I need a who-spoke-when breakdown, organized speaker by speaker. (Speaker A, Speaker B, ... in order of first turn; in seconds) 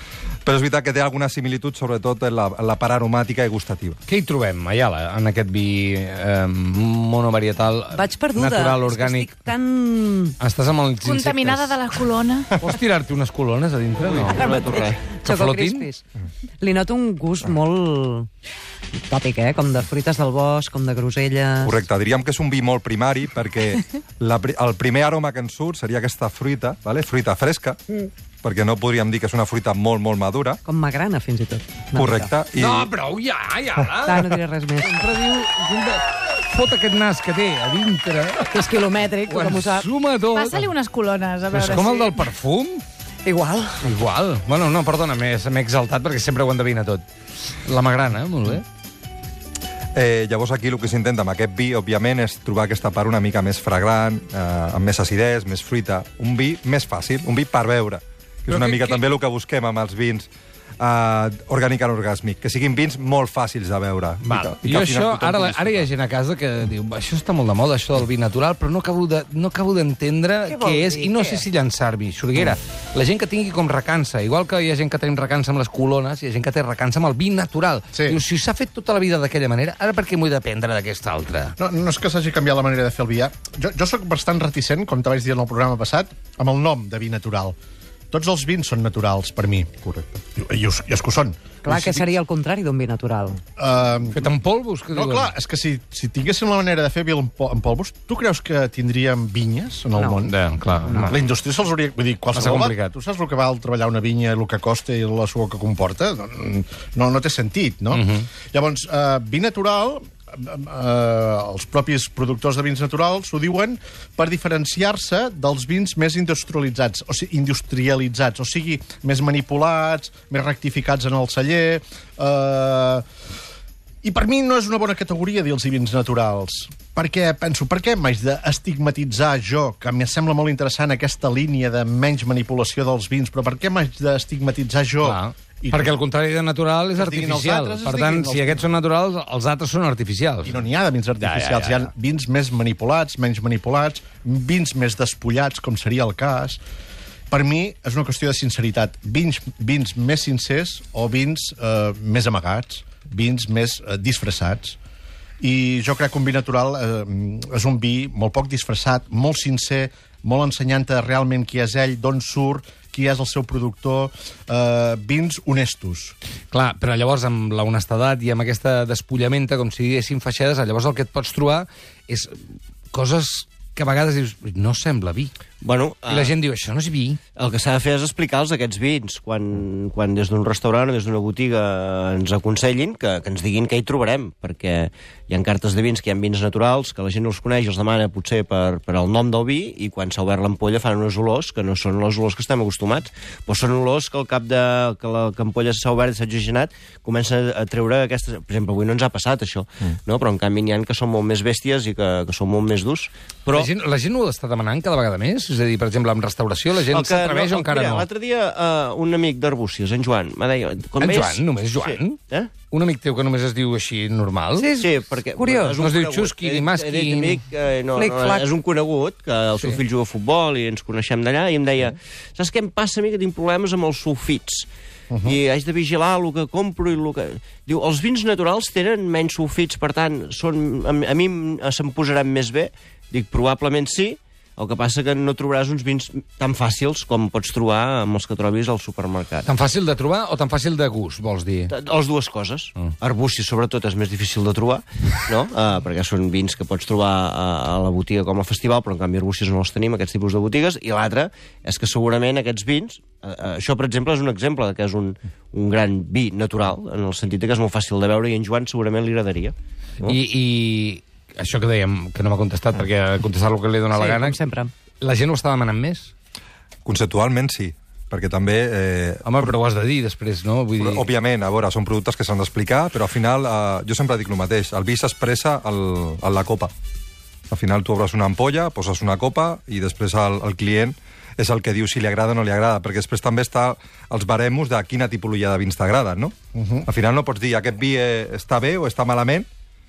Speaker A: 0.5-4.0, 21.6-27.8, 28.4-30.6, 31.9-32.9, 50.0-60.3, 60.8-65.9, 266.9-269.5, 270.8-276.7, 277.5-286.3, 286.9-289.5
Speaker B: 4.1-9.4, 10.4-11.9, 12.6-14.5, 15.2-15.9, 32.6-40.7, 41.5-42.8, 43.8-47.0, 47.6-48.6, 58.5-59.0, 64.2-81.5, 94.2-95.3, 100.2-101.3, 102.3-102.9, 107.9-108.3, 135.0-140.6, 141.2-141.9, 166.5-172.4, 172.9-175.3, 176.1-177.2, 203.5-208.1, 211.0-214.8, 215.8-217.4, 219.6-219.8, 239.4-241.7, 260.0-264.4, 265.0-266.1, 269.2-271.1
Speaker C: 7.9-10.4, 14.3-16.0, 16.6-18.3, 19.1-21.8, 30.6-32.3, 34.0-35.0, 38.5-39.9, 43.2-43.9, 70.5-71.5, 91.6-93.4, 214.6-215.8, 217.9-218.5, 263.9-264.7
Speaker D: 11.0-12.5, 40.3-42.2
Speaker E: 14.1-15.2, 175.6-176.4, 177.4-203.7, 206.8-212.5, 214.8-224.7, 225.2-239.5, 241.7-260.2
Speaker F: 77.9-78.2, 81.6-87.6, 88.1-89.7, 90.4-92.1, 93.6-94.3, 94.9-100.4, 100.9-123.0, 124.0-136.0, 137.0-138.7, 140.4-146.6, 147.3-154.8, 155.4-166.2, 225.1-225.4, 286.6-286.9